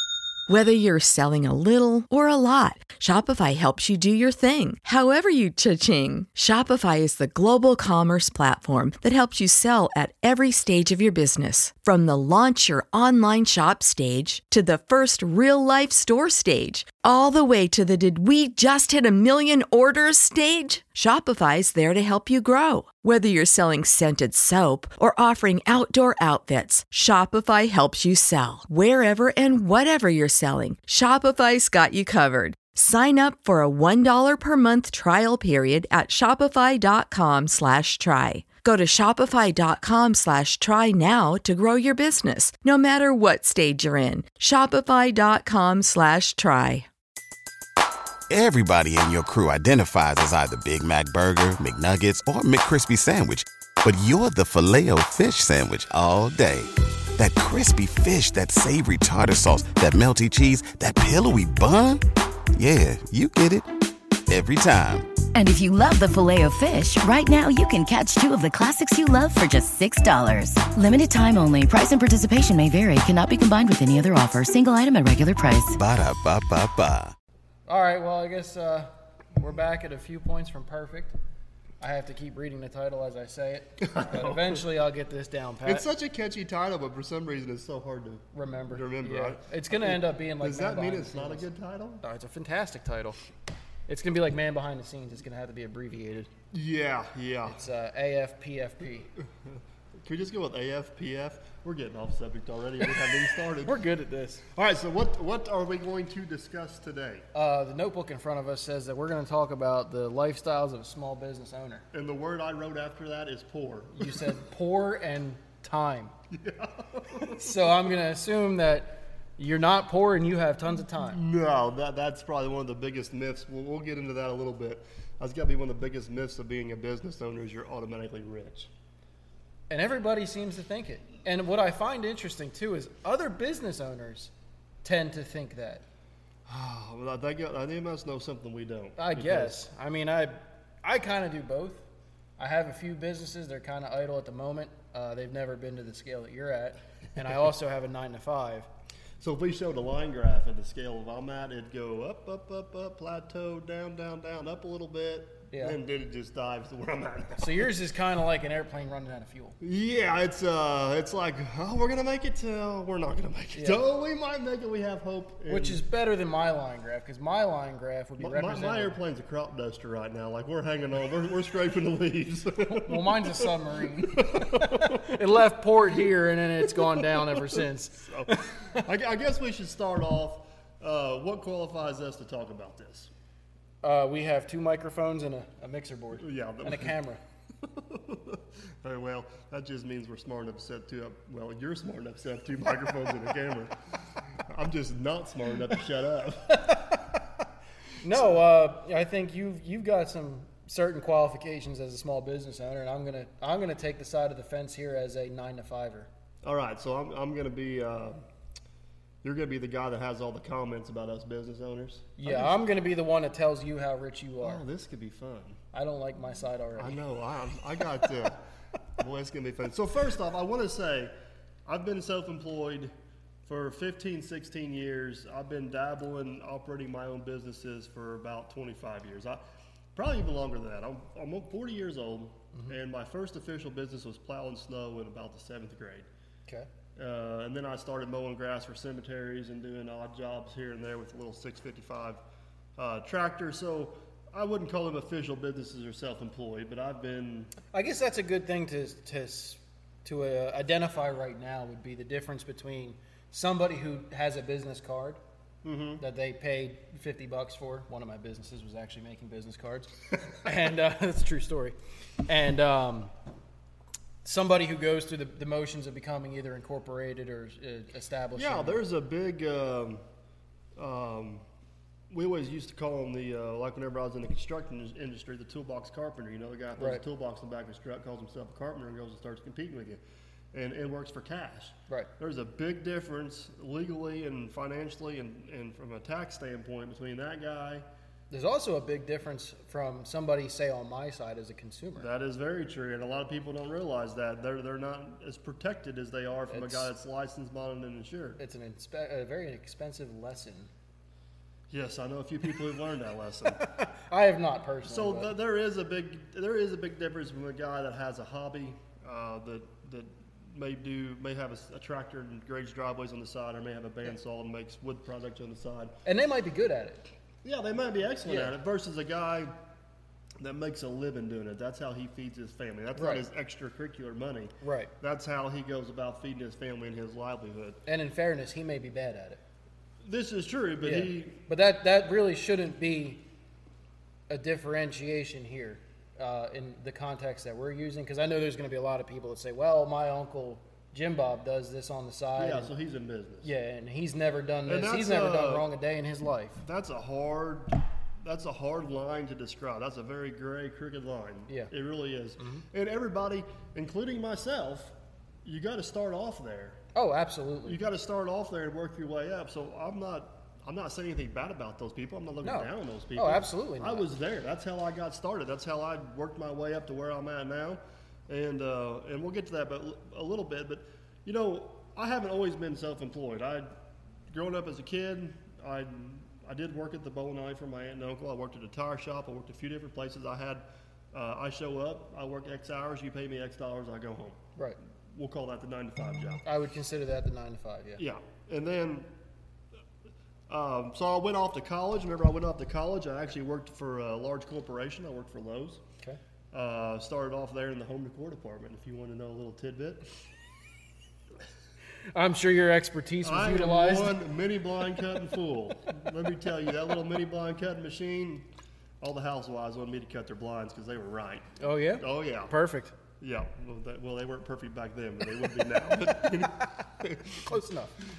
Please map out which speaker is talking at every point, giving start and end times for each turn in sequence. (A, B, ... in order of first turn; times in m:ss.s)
0:00.5-0:46.8 A
0:48.3-1:02.0 B
1:02.5-1:03.7 B
1:04.3-1:05.2 B
1:05.3-1:15.8 C
1:15.7-1:17.1 B
1:17.7-1:21.2 D
1:21.8-1:25.9 D
1:23.8-1:24.6 E
1:25.6-1:32.0 E
1:28.3-1:31.5 D
1:32.0-1:33.2 D
1:33.9-1:36.3 D
1:36.5-1:37.6 E
1:37.4-1:39.1 D
1:39.4-1:43.8 E
1:43.6-1:44.4 D
1:44.5-1:47.3 E
1:47.3-1:51.8 D
1:51.9-1:54.3 E
1:54.0-1:56.1 D
1:56.3-1:57.5 E
1:57.1-2:01.2 D
2:01.0-2:08.7 E
2:09.7-2:15.8 D
2:16.5-2:19.6 E
2:19.0-2:21.8 D
2:22.4-2:28.7 D
2:29.2-2:37.7 E
2:35.5-2:35.8 D
2:37.4-2:39.6 D
2:39.6-2:45.8 E
2:43.5-2:43.8 D
2:45.5-2:49.0 D
2:48.2-2:55.2 E
2:52.6-2:58.8 D
2:56.8-3:03.1 E
3:03.8-3:07.2 D
3:06.2-3:07.0 E
3:07.6-3:13.7 E
3:14.5-3:16.9 E
3:16.5-3:17.2 D
3:18.0-3:26.1 D
3:26.4-3:28.2 E
3:29.2-3:32.6 E
3:32.2-3:34.6 D
3:34.4-3:35.6 E
3:35.7-3:37.0 D
3:36.8-3:38.4 E
3:39.0-3:41.1 E
3:41.6-3:42.9 E
3:43.4-3:49.4 E
3:49.9-3:56.1 E
3:57.0-4:02.2 E
4:02.8-4:07.5 E
4:07.7-4:15.2 D
4:15.6-4:16.0 E
4:16.0-4:23.1 D
4:24.2-4:28.8 D
4:28.3-4:30.0 E
4:30.8-4:31.4 E
4:32.1-4:40.0 E
4:36.8-4:37.0 D
4:40.5-4:47.8 E
4:48.3-4:52.1 D
4:52.0-4:58.4 E
4:56.5-4:56.9 D
4:58.4-5:00.7 D
5:01.7-5:03.6 E
5:03.5-5:05.3 D
5:04.8-5:16.0 E
5:16.0-5:17.1 D
5:17.4-5:19.5 E
5:18.2-5:18.5 D
5:20.4-5:27.8 E
5:22.9-5:23.2 D
5:24.6-5:24.9 D
5:27.8-5:29.4 D
5:30.0-5:31.4 E
5:30.8-5:33.2 D
5:34.3-5:42.7 D
5:42.4-5:43.5 E
5:43.4-5:46.6 D
5:44.6-5:45.7 E
5:46.6-5:56.8 E
5:52.4-5:52.6 D
5:56.9-5:57.8 D
5:57.6-6:13.7 E
6:02.4-6:04.1 D
6:14.3-6:24.4 E
6:25.1-6:26.4 E
6:26.4-6:28.0 D
6:28.0-6:29.1 E
6:30.5-6:35.8 E
6:36.5-6:40.0 E
6:42.1-6:44.2 D
6:43.2-6:48.5 E
6:49.0-6:52.5 E
6:51.6-6:52.9 D
6:53.2-6:57.5 E
6:57.4-6:57.9 D